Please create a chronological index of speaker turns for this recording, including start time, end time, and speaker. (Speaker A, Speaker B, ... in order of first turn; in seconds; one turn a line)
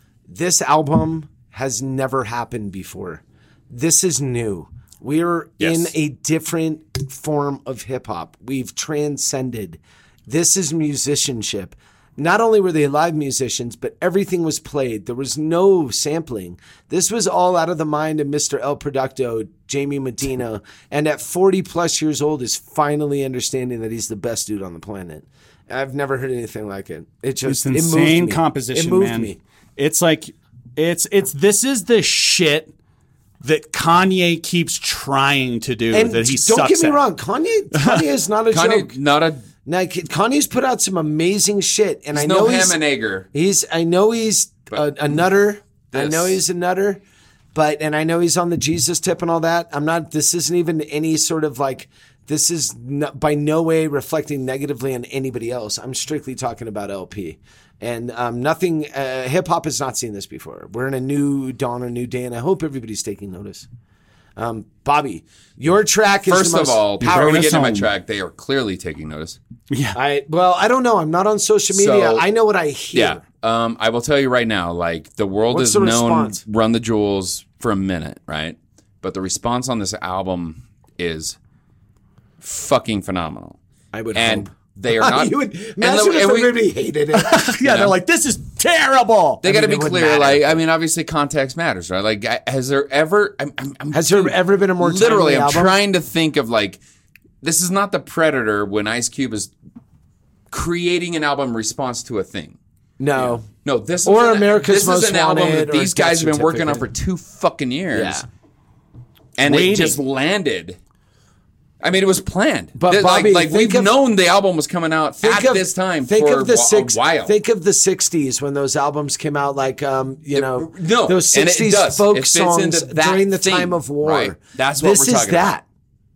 Speaker A: 0.3-29.4
Speaker B: 5.6-5.9
Speaker C: 27.5-32.7
Speaker C: 33.4-37.0
Speaker A: 35.9-38.9
Speaker C: 37.7-38.0
Speaker B: 38.5-39.4
Speaker A: 39.6-42.8
Speaker B: 42.1-43.3
Speaker A: 43.3-47.0
Speaker B: 45.9-46.4
Speaker A: 47.5-63.7
Speaker A: 64.4-67.5
Speaker B: 66.3-69.4
Speaker C: 67.0-67.9
Speaker C: 69.7-70.0
Speaker A: 69.9-73.2
Speaker B: 71.7-72.2
Speaker B: 72.9-81.4
Speaker A: 75.5-76.4
Speaker B: 82.4-83.6
Speaker A: 83.9-87.5
Speaker B: 84.1-86.5
Speaker C: 87.1-89.4
Speaker B: 87.6-87.9
Speaker B: 89.4-96.8
Speaker A: 89.4-90.5
Speaker A: 93.9-95.8
Speaker B: 97.4-99.5
Speaker B: 100.5-102.6
Speaker A: 103.0-103.5
Speaker B: 103.2-108.2
Speaker A: 104.0-106.9
Speaker A: 107.9-108.2
Speaker B: 109.4-110.8
Speaker C: 109.4-110.0
Speaker B: 111.8-117.3
Speaker A: 112.7-113.9
Speaker A: 115.2-125.6
Speaker B: 120.3-125.5